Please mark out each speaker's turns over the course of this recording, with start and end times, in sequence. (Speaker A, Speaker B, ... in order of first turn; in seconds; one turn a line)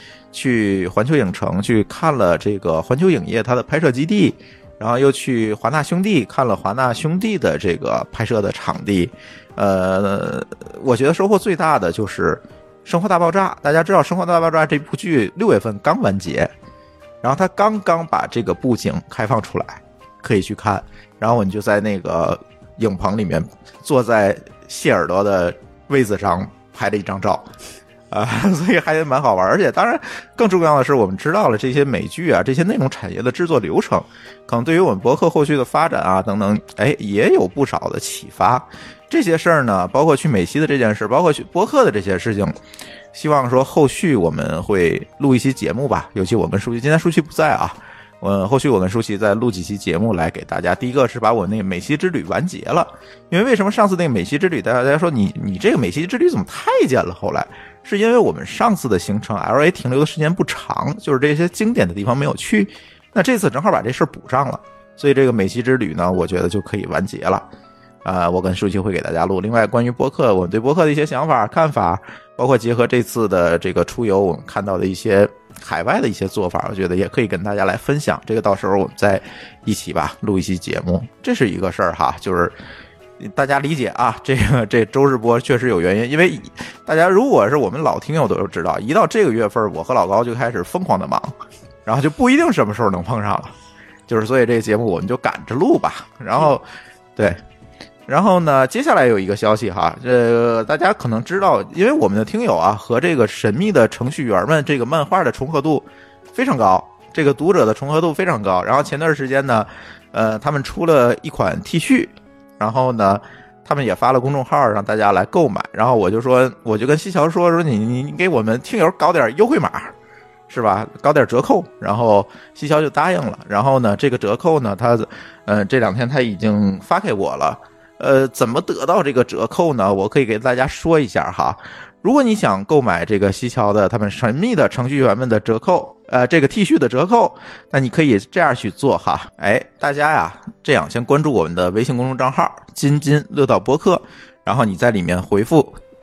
Speaker A: 0.3-16.5
Speaker A: 17.2-27.5
Speaker A: 28.1-42.6
Speaker A: 43.1-67.5
Speaker A: 68.0-82.5
Speaker A: 83.2-91.3
Speaker A: 91.8-93.5
Speaker A: 94.1-97.4
Speaker A: 98.1-119.9
Speaker A: 120.5-145.8